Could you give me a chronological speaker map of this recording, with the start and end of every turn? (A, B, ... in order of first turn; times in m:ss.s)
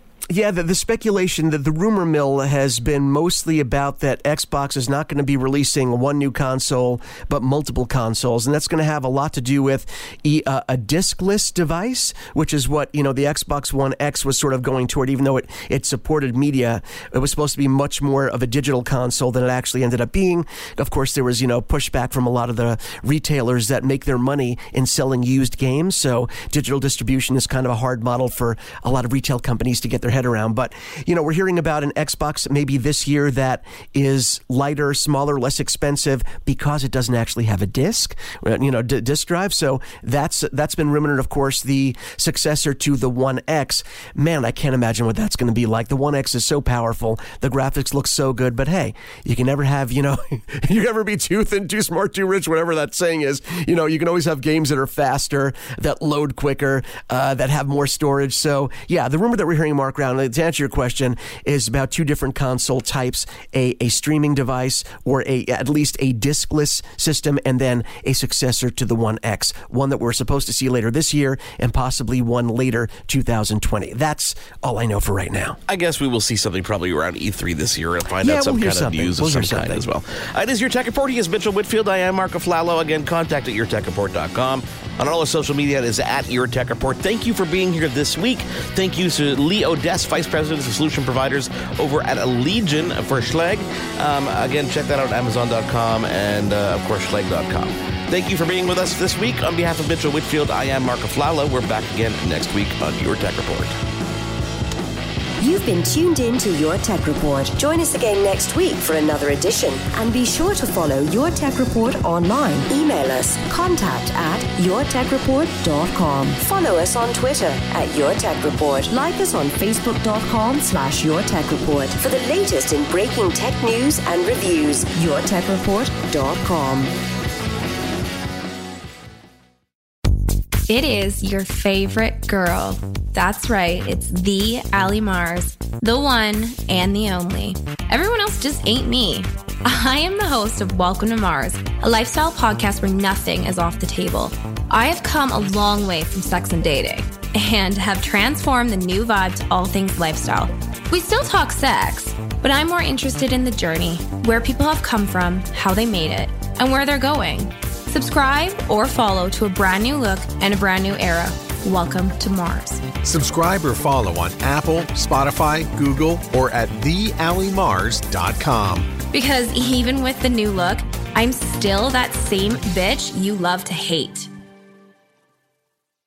0:00.3-1:15.6 A
1:15.7-1:43.7 B
1:18.2-1:19.8 A
1:45.4-2:06.9 C
2:10.7-2:42.8 D
2:43.0-2:48.8 E
2:49.1-2:54.3 D